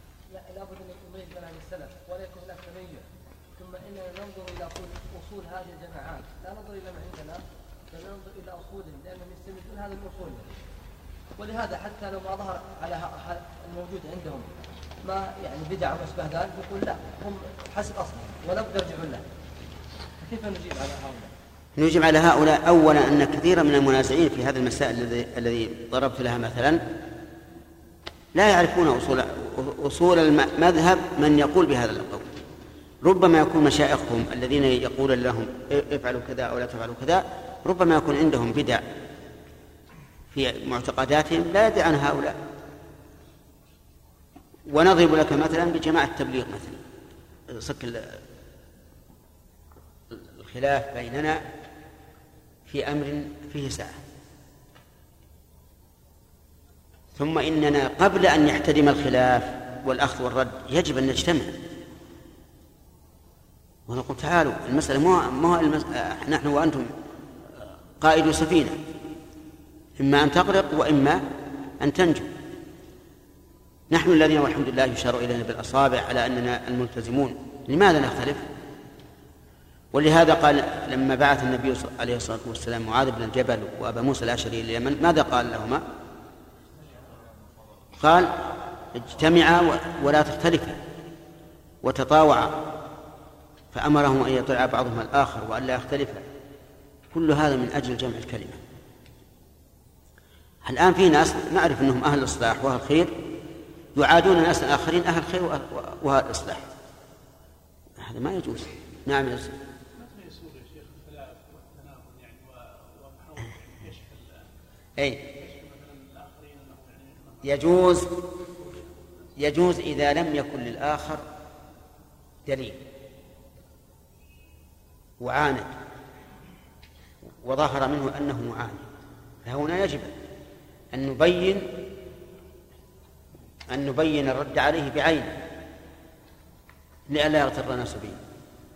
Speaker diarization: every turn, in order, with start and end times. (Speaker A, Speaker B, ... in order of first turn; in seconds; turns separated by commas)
Speaker A: 0.3-10.5, Speaker A: 11.4-14.5, Speaker A: 15.0-19.2, Speaker A: 20.2-21.3, Speaker B: 21.8-26.8, Speaker B: 28.3-32.3, Speaker B: 33.0-38.8, Speaker B: 40.3-42.4, Speaker B: 44.7-46.8, Speaker B: 47.5-48.2, Speaker B: 50.1-51.4, Speaker B: 52.7-54.0, Speaker B: 57.2-61.5, Speaker B: 63.9-66.9, Speaker B: 68.0-68.8, Speaker B: 70.0-71.2, Speaker B: 71.8-72.3, Speaker B: 73.9-78.5, Speaker B: 79.9-85.8, Speaker B: 88.0-88.4, Speaker B: 88.9-90.8, Speaker B: 91.8-92.7, Speaker B: 93.7-96.3, Speaker B: 97.1-98.6, Speaker B: 100.6-103.2, Speaker B: 104.0-106.7, Speaker B: 108.0-109.5, Speaker C: 110.0-114.5, Speaker B: 115.0-115.2, Speaker C: 115.3-117.9, Speaker B: 117.4-118.2, Speaker C: 118.4-119.1, Speaker B: 119.4-121.2, Speaker B: 122.5-122.8, Speaker B: 125.2-125.7, Speaker B: 127.4-128.8, Speaker B: 129.4-130.1, Speaker B: 130.9-131.7, Speaker B: 133.7-135.3, Speaker B: 137.1-138.2